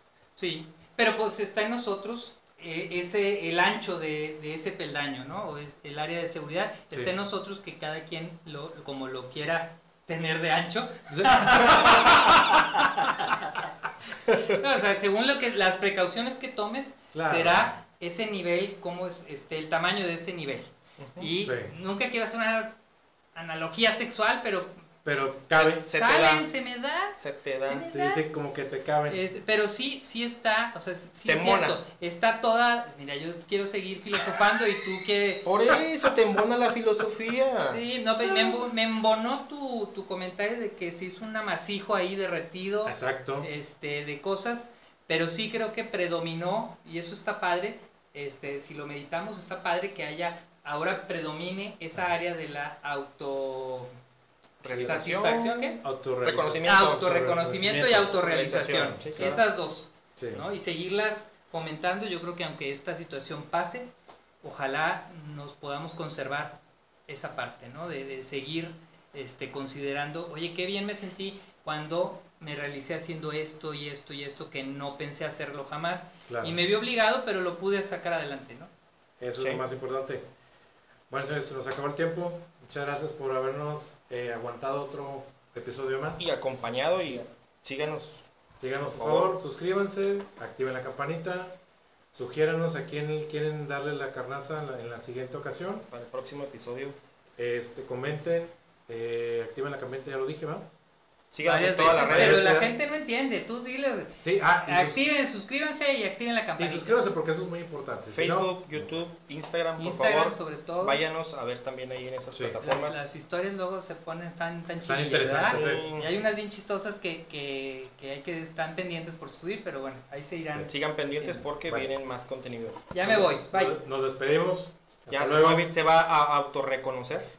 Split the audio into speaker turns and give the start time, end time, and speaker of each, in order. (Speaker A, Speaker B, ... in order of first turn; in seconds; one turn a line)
Speaker A: 0.4-13.7
Speaker B: 11.1-12.6
Speaker A: 14.2-22.8
Speaker B: 17.1-17.7
Speaker C: 21.0-21.3
Speaker B: 21.4-21.7
Speaker A: 23.4-24.8
Speaker B: 25.1-25.8
Speaker C: 25.6-26.5
Speaker A: 25.6-27.2
Speaker C: 27.2-27.9
Speaker A: 27.7-28.2
Speaker B: 27.8-29.2
Speaker A: 29.1-35.5
Speaker C: 31.3-31.8
Speaker C: 35.5-37.8
Speaker A: 37.6-53.9
Speaker B: 42.9-43.5
Speaker C: 54.6-57.1
Speaker B: 54.7-59.0
Speaker A: 54.8-55.8
Speaker A: 56.6-63.9
Speaker C: 58.2-59.4
Speaker B: 60.2-60.4
Speaker A: 64.4-78.7
Speaker B: 76.3-76.6
Speaker B: 79.2-80.3
Speaker C: 79.4-79.6
Speaker B: 81.1-86.2
Speaker C: 86.2-88.3
Speaker B: 88.6-91.6
Speaker C: 88.8-89.4
Speaker B: 92.1-95.8
Speaker C: 95.8-97.0
Speaker B: 97.4-100.7
Speaker C: 101.3-102.5
Speaker A: 101.4-107.0
Speaker B: 101.9-102.7
Speaker B: 104.2-105.1
Speaker B: 106.6-108.9
Speaker C: 108.1-113.1
Speaker A: 109.8-111.0
Speaker B: 112.3-112.6
Speaker A: 112.6-121.4
Speaker B: 114.8-115.8
Speaker C: 115.5-116.2
Speaker C: 120.7-122.8
Speaker A: 122.9-123.8
Speaker B: 123.0-125.7
Speaker C: 125.1-127.3